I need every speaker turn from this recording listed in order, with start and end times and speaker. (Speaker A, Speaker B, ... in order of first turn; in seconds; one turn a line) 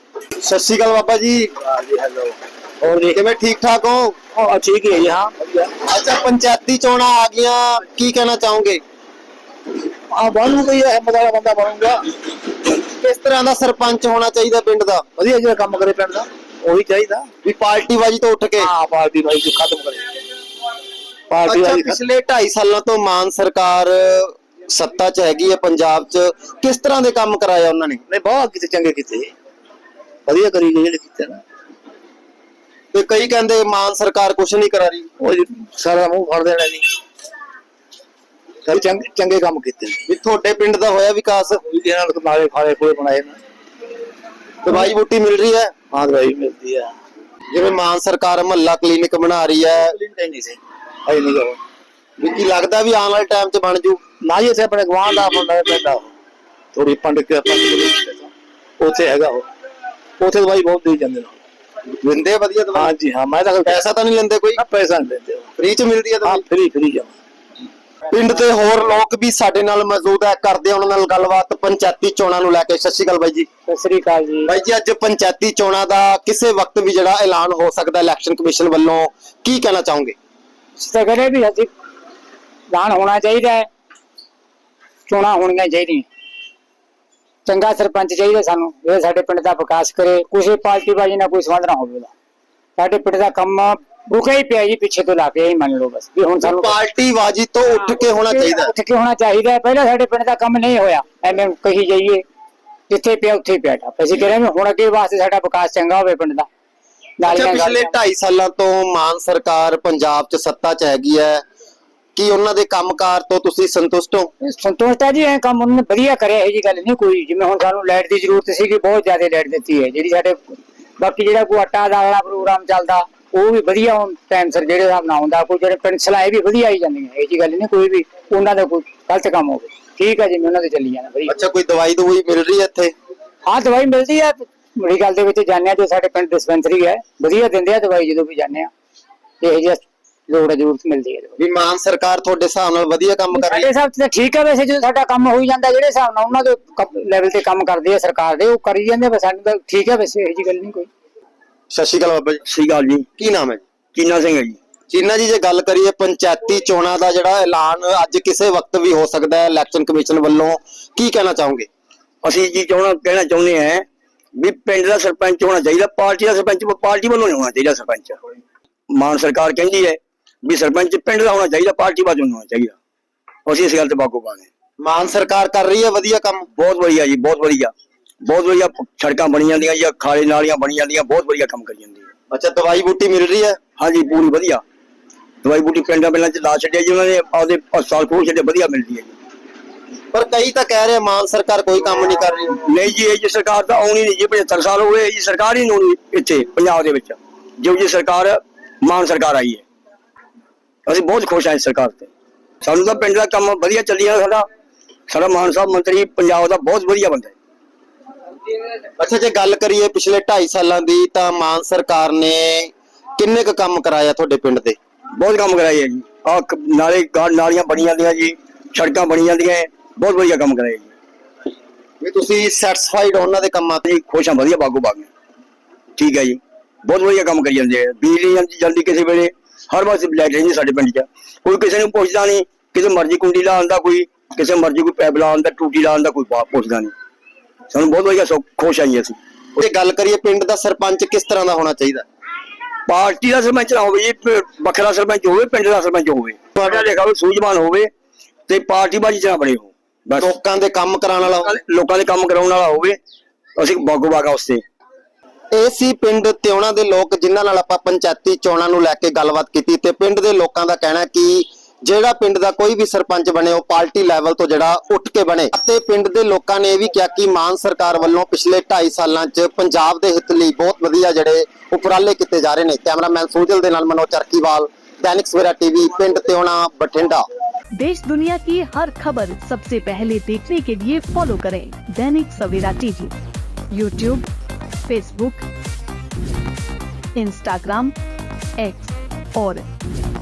Speaker A: 0.4-1.5
Speaker B: 1.7-3.1
Speaker A: 3.1-4.2
Speaker B: 4.3-5.7
Speaker A: 5.8-8.8
Speaker B: 10.1-12.1
Speaker A: 12.8-15.1
Speaker B: 15.2-17.2
Speaker A: 17.4-18.7
Speaker B: 18.6-20.0
Speaker B: 21.3-21.9
Speaker A: 21.4-28.0
Speaker B: 28.1-29.3
Speaker B: 30.2-31.4
Speaker A: 32.9-35.1
Speaker B: 35.2-36.9
Speaker B: 38.7-40.0
Speaker A: 40.1-41.6
Speaker B: 41.7-43.4
Speaker A: 44.6-45.7
Speaker B: 45.9-46.9
Speaker A: 47.5-50.0
Speaker B: 50.0-51.6
Speaker A: 52.2-54.0
Speaker B: 54.2-56.1
Speaker B: 56.7-59.5
Speaker B: 60.2-61.4
Speaker A: 62.0-63.0
Speaker B: 62.7-63.8
Speaker A: 63.6-64.6
Speaker B: 64.6-65.5
Speaker A: 65.6-66.4
Speaker B: 66.2-67.1
Speaker A: 68.1-73.5
Speaker C: 73.7-74.5
Speaker A: 74.5-80.2
Speaker C: 80.8-81.7
Speaker C: 82.7-83.7
Speaker C: 85.1-86.0
Speaker C: 87.5-92.1
Speaker C: 92.8-96.8
Speaker A: 96.4-98.7
Speaker C: 97.8-102.2
Speaker C: 102.9-106.5
Speaker C: 107.2-107.9
Speaker A: 107.2-111.4
Speaker A: 112.2-114.3
Speaker C: 114.4-131.3
Speaker A: 131.2-132.9
Speaker C: 133.4-138.7
Speaker C: 139.4-141.3
Speaker A: 141.4-143.7
Speaker C: 143.3-150.9
Speaker A: 151.7-152.4
Speaker D: 152.5-153.0
Speaker A: 153.2-153.6
Speaker D: 153.9-154.6
Speaker A: 154.9-161.7
Speaker D: 162.2-168.2
Speaker D: 168.9-172.7
Speaker D: 173.4-174.5
Speaker A: 174.8-176.5
Speaker D: 176.6-177.7
Speaker D: 178.2-182.1
Speaker A: 182.3-183.6
Speaker D: 183.8-184.6
Speaker D: 185.4-189.1
Speaker A: 190.1-192.6
Speaker D: 192.6-199.6
Speaker D: 200.9-202.1
Speaker D: 202.6-204.4
Speaker D: 205.1-207.3
Speaker A: 209.0-214.8
Speaker D: 215.2-220.9
Speaker A: 222.0-223.8
Speaker D: 223.9-225.1
Speaker D: 225.9-236.9
Speaker D: 237.7-239.2
Speaker A: 239.6-242.0
Speaker D: 242.9-247.9
Speaker A: 246.6-246.9
Speaker D: 248.5-250.3
Speaker A: 250.2-251.5
Speaker D: 251.3-253.0
Speaker D: 253.6-254.6
Speaker A: 255.5-277.2
Speaker E: 277.8-283.1
Speaker E: 283.7-284.3
Speaker E: 284.9-285.4
Speaker E: 287.1-287.9
Speaker E: 288.6-289.6